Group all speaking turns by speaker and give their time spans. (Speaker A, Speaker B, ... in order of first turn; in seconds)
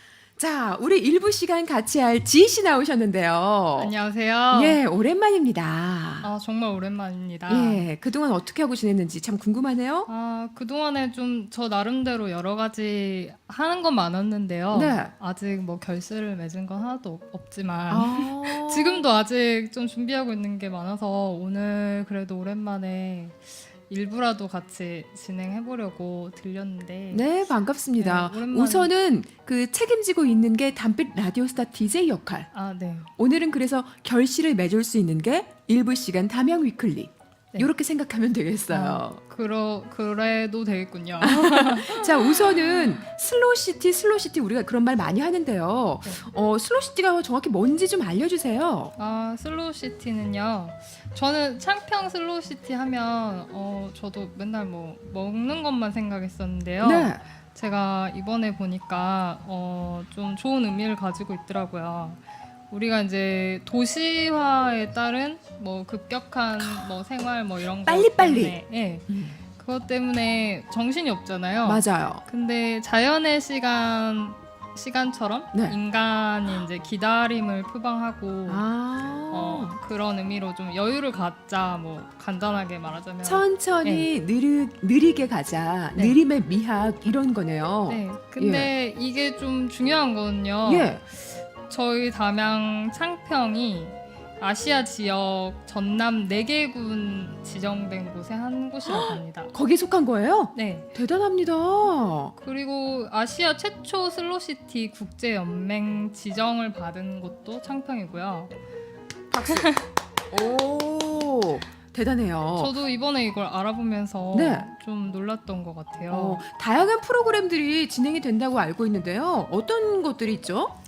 Speaker A: 0.4-3.9, 4.5-6.3, 7.5-10.1, 14.7-15.1, 17.9-19.1, 27.1-32.5, 33.2-39.2, 41.2-48.9, 56.8-57.2, 67.9-69.4, 71.6-72.2, 78.5-79.8, 83.2-88.7, 90.7-91.0, 98.8-102.3, 109.3-109.7, 110.3-112.7, 114.3-114.7, 116.1-120.7
Speaker B: 3.8-4.8, 6.2-7.8, 10.1-27.3, 27.9-28.9, 32.5-33.1, 38.7-43.0, 49.0-78.7, 79.3-84.1, 87.9-91.0, 91.7-99.5, 100.5-100.9, 102.4-108.5, 109.4-109.8, 112.6-116.4